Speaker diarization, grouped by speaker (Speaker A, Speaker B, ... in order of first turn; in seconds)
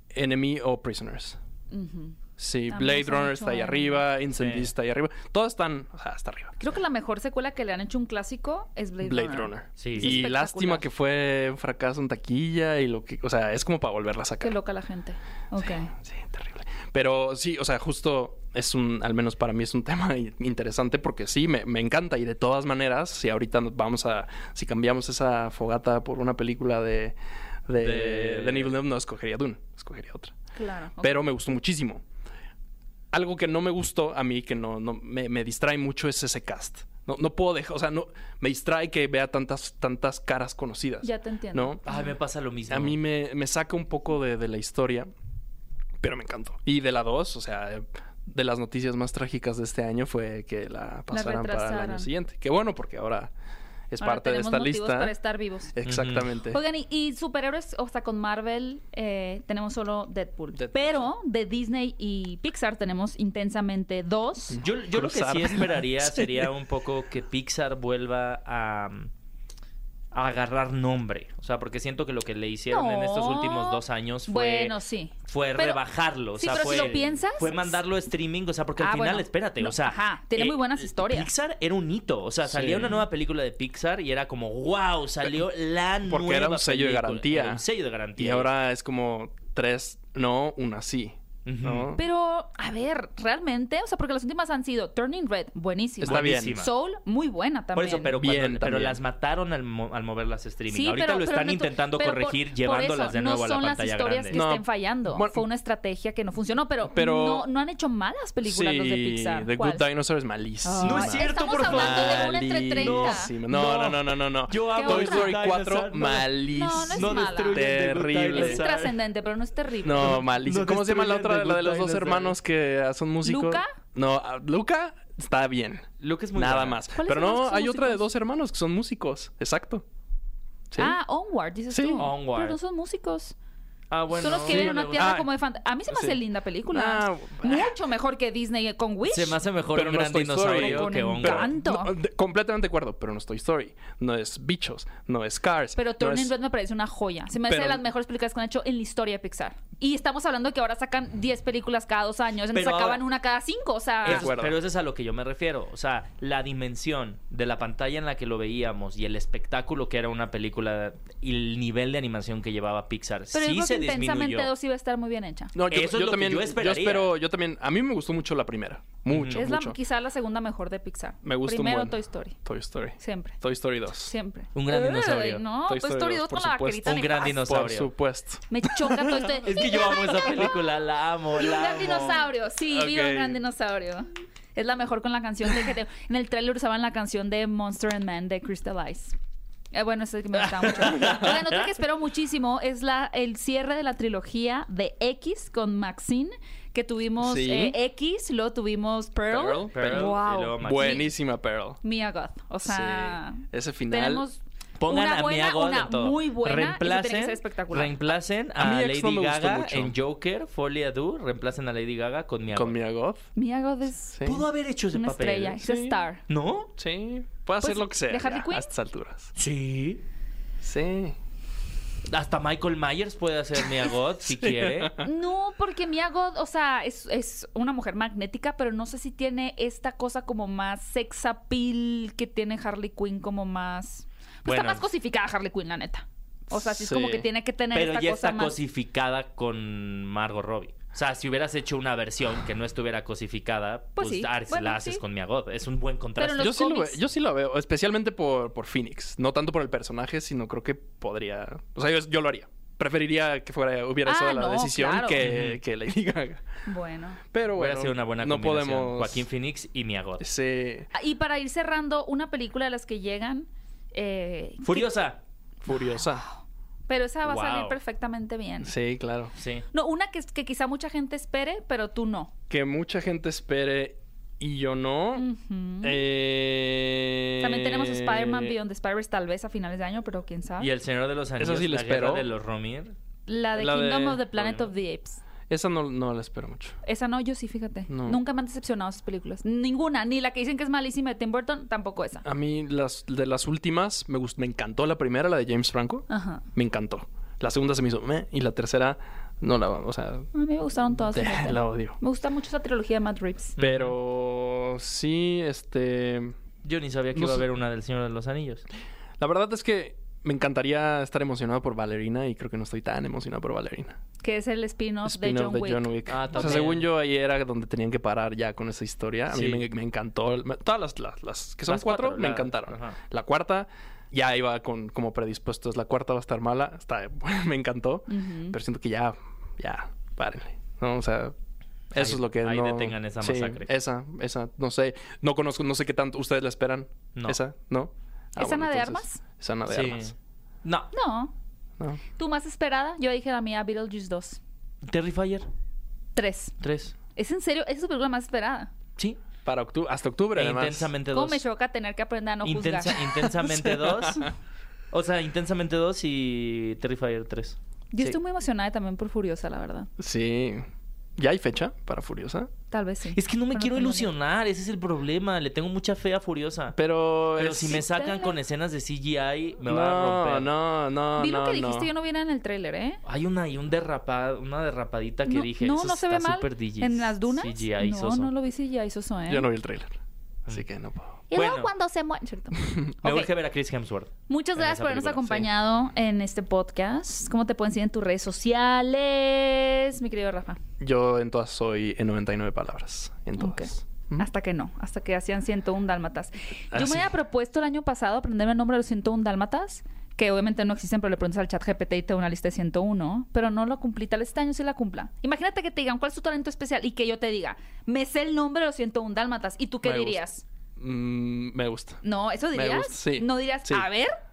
Speaker A: 0.1-1.4, 2.4-6.5, 9.0-14.6, 15.6-30.3, 31.0-32.0, 33.1-41.8, 42.7-45.1, 46.0-53.3, 53.9-55.1, 55.7-56.6, 60.5-61.1, 64.5-66.5, 82.5-83.1, 86.0-87.6, 88.2-92.0, 96.0-96.6, 98.1-99.0, 104.3-105.4, 106.9-107.5, 108.4-118.6, 119.8-129.8, 130.7-131.0, 131.7-132.1, 134.5-135.3, 135.9-136.2, 136.7-137.7, 139.7-146.3, 147.5-147.8, 154.0-154.6, 165.5-169.8, 171.2-174.1, 175.7-179.3, 182.7-183.4, 197.2-197.8, 199.3-201.8, 202.7-204.3, 208.6-209.9, 212.5-213.3, 214.1-214.5, 215.6-216.0, 216.8-219.3, 220.6-221.2, 224.3-225.1, 236.5-237.3, 246.4-256.4, 257.3-259.2, 260.2-260.9, 265.6-266.2, 268.6-269.3, 272.5-275.3, 275.8-278.6, 281.4-282.3, 283.6-284.6, 285.5-286.8, 287.9-288.2, 292.2-300.3, 301.1-302.0, 303.6-306.4, 307.1-307.5, 309.2-314.0, 315.1-331.3, 331.9-340.1, 349.4-350.9, 353.3-354.3, 360.0-360.7, 361.2-362.5, 366.7-367.9, 369.6-371.9, 379.3-380.0, 380.5-381.1, 382.6-382.9, 390.8-394.3, 396.7-397.1, 409.8-410.2, 410.8-412.0, 412.5-413.9
Speaker B: 1.7-2.2, 2.7-4.0, 6.6-10.9, 14.4-15.9, 30.6-31.2, 41.0-42.1, 51.1-52.1, 54.0-55.7, 56.5-64.6, 72.7-75.8, 76.4-77.8, 78.8-81.3, 92.0-98.1, 100.7-109.8, 110.6-113.3, 114.7-115.3, 116.5-117.6, 118.3-120.3, 123.2-123.7, 127.0-128.1, 130.8-133.3, 134.1-139.4, 140.5-141.9, 145.8-154.3, 163.3-165.5, 169.3-172.4, 173.0-173.4, 174.0-177.4, 178.5-180.5, 181.4-189.2, 189.7-201.1, 201.8-208.0, 213.3-214.2, 214.9-216.2, 217.6-218.7, 225.0-238.6, 244.0-245.0, 246.2-247.0, 254.1-255.2, 256.7-257.2, 260.9-264.9, 265.7-266.3, 266.9-268.7, 269.7-272.3, 275.2-276.1, 277.4-280.7, 283.3-285.2, 286.8-292.2, 296.1-296.4, 300.3-303.6, 314.2-316.7, 328.1-328.6, 338.4-339.2, 340.9-341.3, 342.2-344.4, 346.2-346.6, 347.1-348.7, 351.1-353.1, 357.9-359.9, 362.7-364.1, 367.8-368.4, 371.2-373.0, 375.3-379.5, 381.3-383.3, 384.3-390.6, 393.4-410.4, 412.0-414.1
Speaker C: 4.4-4.7, 9.8-10.2, 27.8-28.7, 41.9-43.0, 55.9-56.4, 64.6-69.1, 70.1-88.5, 91.5-91.9, 96.0-96.7, 97.7-104.4, 110.8-119.0, 119.9-122.3, 126.0-126.8, 132.0-132.6, 133.9-135.2, 139.1-141.5, 152.5-153.0, 154.0-164.5, 165.7-167.1, 169.1-169.4, 174.6-175.4, 176.9-177.9, 179.4-182.2, 190.5-191.5, 199.7-201.1, 204.8-212.8, 214.2-215.6, 216.3-216.7, 219.4-220.0, 222.1-225.0, 234.4-234.8, 237.7-246.5, 255.2-255.6, 257.5-260.2, 264.6-265.2, 267.2-267.8, 269.4-269.6, 280.6-282.9, 303.6-303.9, 306.6-308.6, 316.1-316.9, 319.3-319.6, 321.6-323.0, 331.9-333.7, 337.1-337.4, 339.7-340.9, 344.8-345.5, 346.6-346.9, 350.4-351.4, 352.4-354.3, 354.9-358.2, 363.1-366.8, 367.4-370.5, 373.1-378.3, 381.3-381.7, 383.0-385.4